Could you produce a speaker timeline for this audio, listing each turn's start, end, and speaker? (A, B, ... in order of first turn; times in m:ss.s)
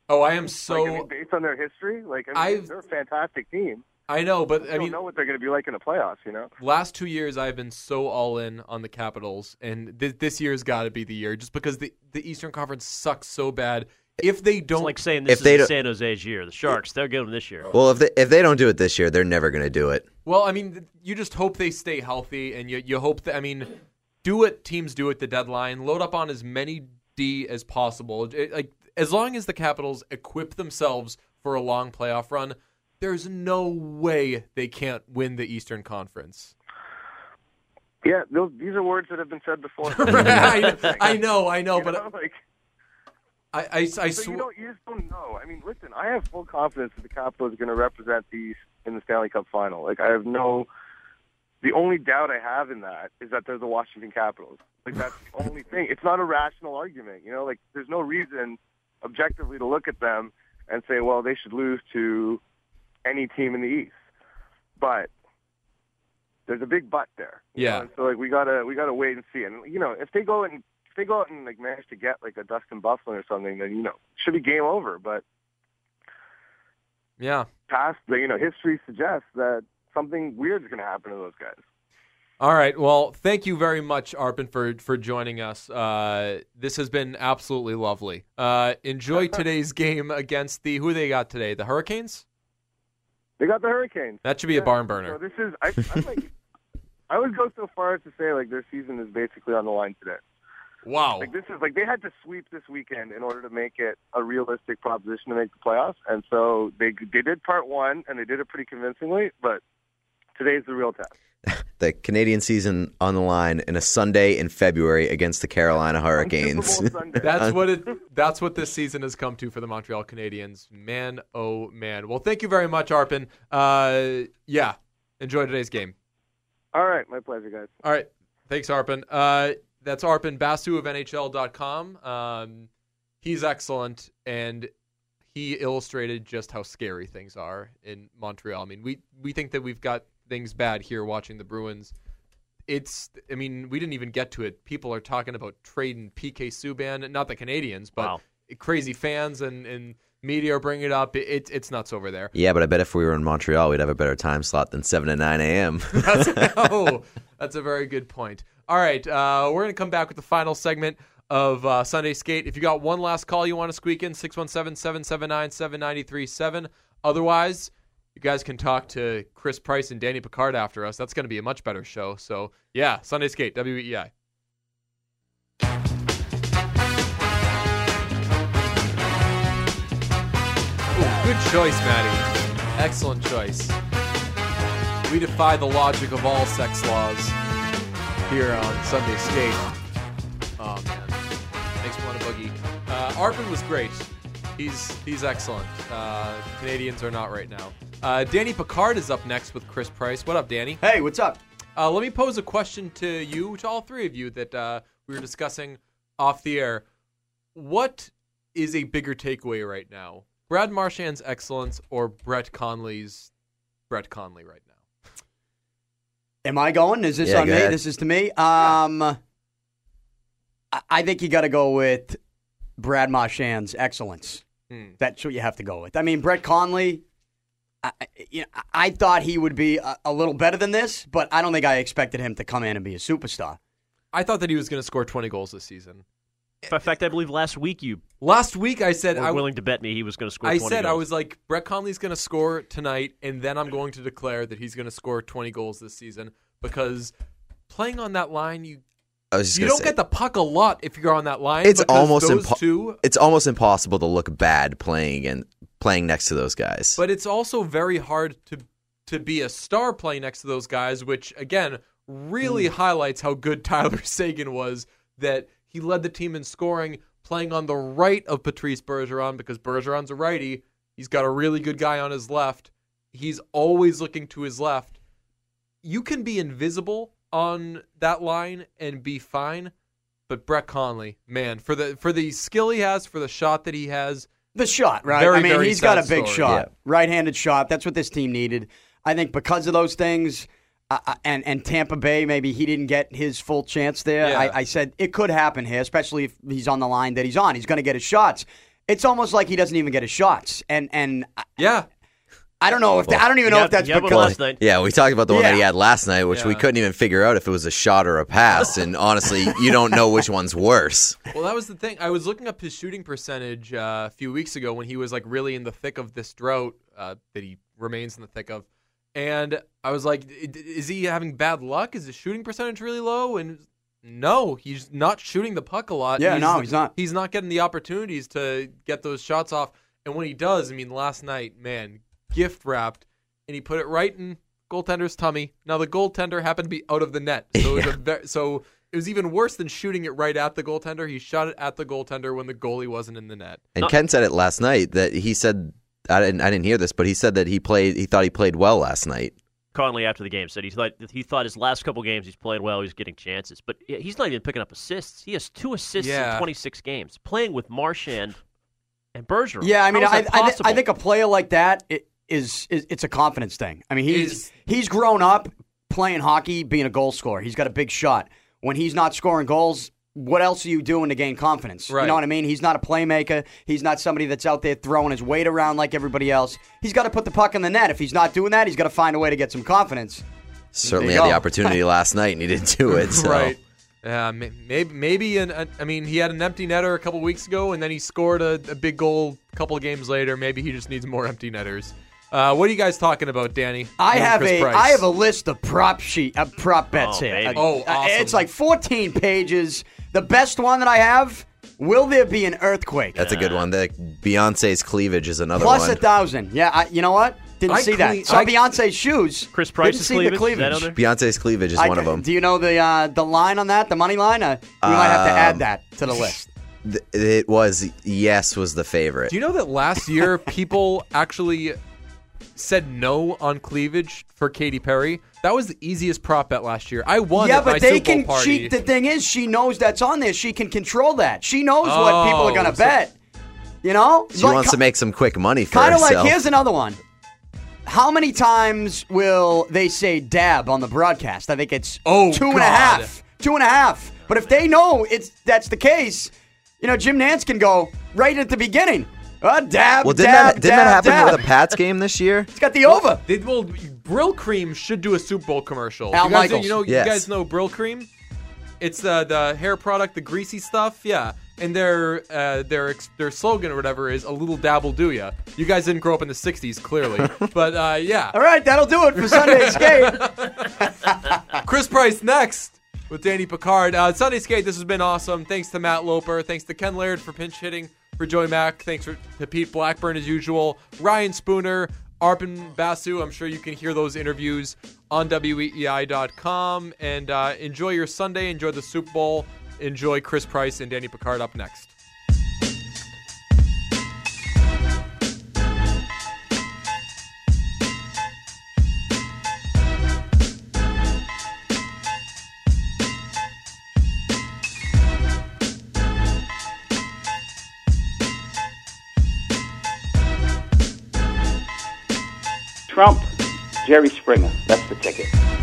0:00.1-0:01.1 A
0:00.7-0:03.8 B
0:02.3-0:02.7 A
0:04.1-0:05.0 A
0:04.6-0:06.5 B
0:06.6-0:14.9 A
0:14.8-0:17.7 C
0:15.3-0:15.7 D
0:17.7-0:20.0 D
0:20.2-0:23.7 A
0:24.2-0:36.5 A
0:38.0-0:41.2 B
0:39.9-0:42.0 A
0:41.7-0:42.4 B
0:43.5-0:44.4 A
0:44.2-0:50.7 B
0:51.6-1:02.4 B
1:03.0-1:03.9 B
1:04.8-1:05.1 B
1:06.5-1:15.2 B
1:07.6-1:07.9 A
1:17.2-1:17.5 A
1:17.7-1:21.6 B
1:22.4-1:32.2 A
1:33.4-1:36.3 B
1:34.2-1:35.2 A
1:37.1-1:40.2 B
1:40.8-1:41.3 A
1:41.2-1:49.6 B
1:50.4-1:51.1 B
1:51.4-1:57.5 D
1:56.2-1:57.4 B
1:57.2-2:05.9 A
2:06.7-2:07.7 B
2:07.8-2:12.7 A
2:13.2-2:14.7 A
2:15.3-2:21.9 A
2:22.7-2:32.3 A
2:32.3-2:36.6 D
2:35.9-2:54.1 A
3:00.9-3:02.2 A
3:02.8-3:03.8 A
3:05.0-3:07.4 A
3:08.3-3:09.7 A
3:10.6-3:11.2 A
3:11.8-3:20.8 A
3:20.8-3:21.4 E
3:21.8-3:26.8 A
3:27.5-3:33.3 A
3:33.9-3:34.7 A
3:36.4-3:39.2 E
3:37.2-3:37.8 D
3:40.7-3:42.2 E
3:42.8-3:44.4 E
3:44.7-3:44.9 A
3:45.0-3:47.0 E
3:47.8-3:53.6 E
3:54.1-3:56.0 A
3:56.7-3:58.0 C
3:58.2-3:59.4 A
3:59.2-4:01.0 C
4:00.4-4:07.1 A
4:07.7-4:08.8 A
4:09.3-4:09.9 D
4:09.5-4:13.0 A
4:11.6-4:17.0 D
4:17.0-4:35.0 A
4:35.8-4:39.7 A
4:40.3-4:44.3 A
4:44.6-5:01.4 E
4:45.1-4:46.5 A
4:54.2-4:54.6 A
5:01.6-5:01.9 A
5:02.6-5:04.5 E
5:03.2-5:04.6 C
5:04.1-5:11.2 D
5:05.3-5:05.6 E
5:06.3-5:06.6 A
5:11.3-5:43.6 A
5:26.2-5:26.9 E
5:37.6-5:37.9 D
5:43.8-5:49.4 D
5:49.7-5:58.4 C
5:56.0-5:56.5 A
5:59.1-6:00.8 C
5:59.6-6:20.2 E
6:04.1-6:04.5 A
6:11.9-6:12.2 A
6:20.7-6:23.6 D
6:20.8-6:21.8 E
6:22.9-6:35.0 A
6:34.0-6:43.2 E
6:36.9-6:37.6 C
6:37.6-6:38.5 A
6:43.1-6:46.0 D
6:43.2-6:43.7 C
6:45.6-6:50.9 E
6:47.7-6:48.6 A
6:49.5-6:51.0 C
6:50.9-6:52.2 D
6:51.8-6:56.4 E
6:54.8-6:55.6 D
6:56.8-6:59.3 D
6:59.3-7:01.8 A
7:02.6-7:08.7 A
7:07.3-7:13.1 E
7:11.8-7:13.0 A
7:13.8-7:14.8 E
7:14.3-7:16.4 D
7:15.7-7:17.0 E
7:17.9-7:31.5 E
7:22.0-7:23.1 A
7:30.0-7:32.5 D
7:32.5-7:33.2 E
7:32.9-7:38.1 A
7:36.1-7:36.8 E
7:36.8-7:37.2 D
7:38.8-7:48.4 A
7:48.3-7:51.6 E
7:49.2-7:50.7 A
7:51.6-8:11.9 A
8:32.9-8:33.3 F
8:33.8-8:35.3 F